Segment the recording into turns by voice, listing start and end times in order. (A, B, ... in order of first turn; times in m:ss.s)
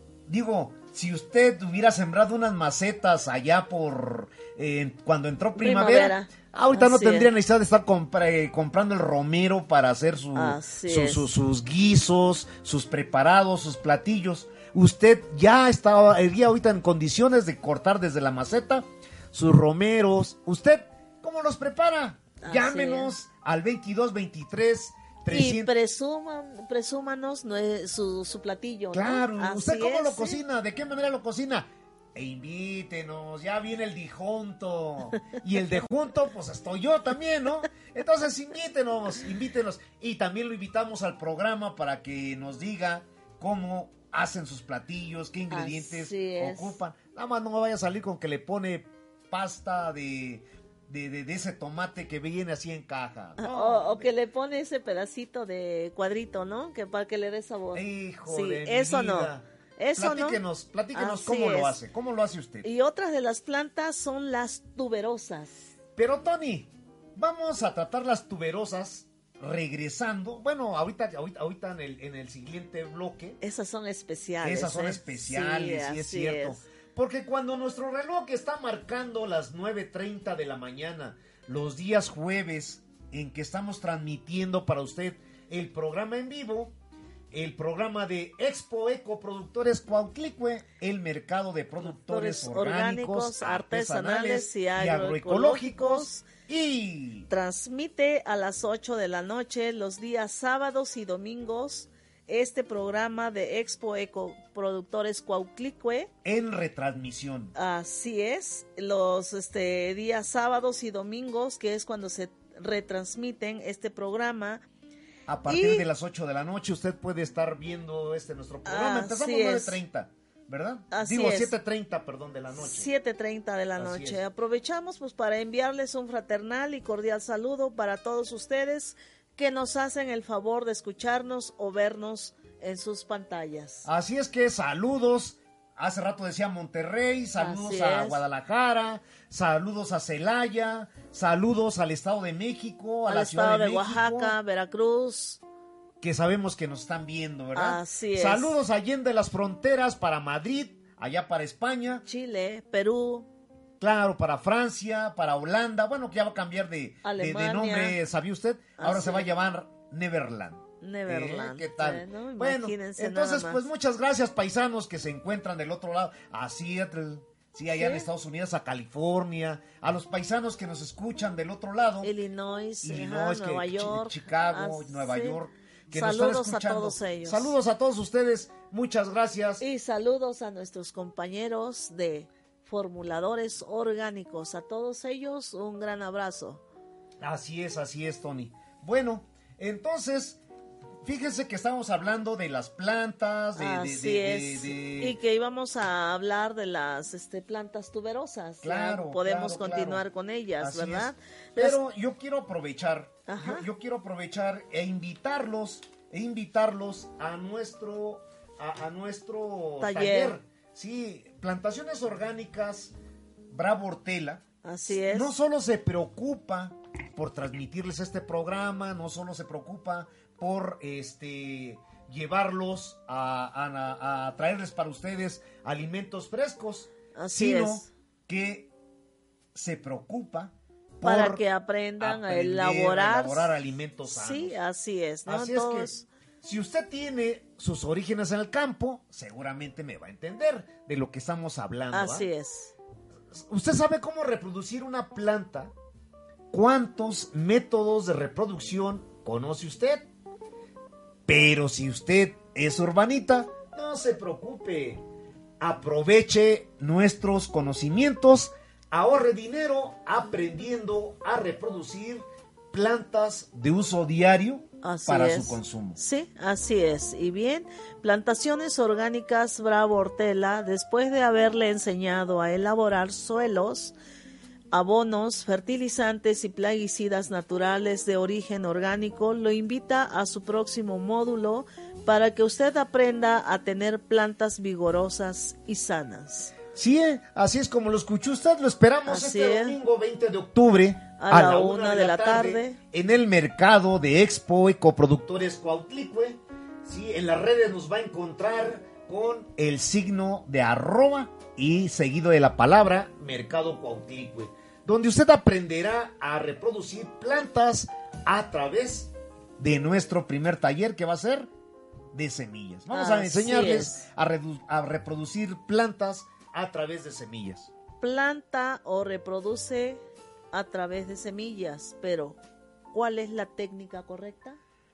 0:00.3-0:25.7 A
0:05.6-0:07.3 B
0:10.4-0:11.3 B
0:22.4-0:23.1 B
0:25.3-0:30.4 B
0:28.9-0:54.1 A
0:45.5-0:46.8 B
0:53.4-1:00.4 B
0:57.7-0:59.4 A
1:00.0-1:02.7 A
1:00.9-1:01.8 B
1:02.6-1:05.7 B
1:06.0-1:13.4 A
1:13.4-1:16.6 B
1:14.4-1:26.7 A
1:27.3-1:37.3 A
1:31.9-1:36.3 B
1:37.3-1:46.1 B
1:46.2-1:47.5 A
1:47.6-1:54.6 B
1:55.3-2:02.9 A
1:55.5-1:55.8 B
1:58.7-1:59.8 B
2:00.9-2:01.5 B
2:02.5-2:13.9 B
2:03.8-2:04.2 A
2:13.8-2:24.4 A
2:17.4-2:18.2 B
2:23.1-2:25.4 B
2:26.0-2:32.0 A
2:27.5-2:28.6 B
2:32.0-2:33.3 B
2:33.8-2:52.1 A
2:37.0-2:38.0 B
2:38.8-2:39.3 B
2:40.8-2:43.7 B
2:47.7-2:48.1 B
2:52.0-2:55.4 B
2:52.8-2:59.6 A
2:55.9-2:57.5 B
2:59.6-3:06.6 B
3:07.2-3:10.4 A
3:11.0-3:15.2 A
3:13.6-3:21.8 B
3:18.6-3:20.0 A
3:20.6-3:32.9 A
3:23.3-3:23.7 B
3:29.8-3:30.4 B
3:33.5-3:48.7 A
3:34.6-3:35.3 B
3:47.2-3:47.9 B
3:49.5-3:51.4 A
3:51.0-3:53.5 B
3:52.0-3:54.6 A
3:54.1-3:56.1 B
3:55.3-4:02.3 A
4:01.9-4:02.7 B
4:03.3-4:05.7 A
4:06.5-4:10.1 A
4:11.3-4:15.0 A
4:15.6-4:26.0 A
4:24.8-4:34.0 B
4:34.7-4:46.5 B
4:46.8-5:11.5 A
4:49.1-4:49.8 B
4:51.2-4:52.8 B
5:12.1-5:17.7 A
5:12.9-5:14.0 B
5:18.0-5:22.4 B
5:22.9-5:24.6 B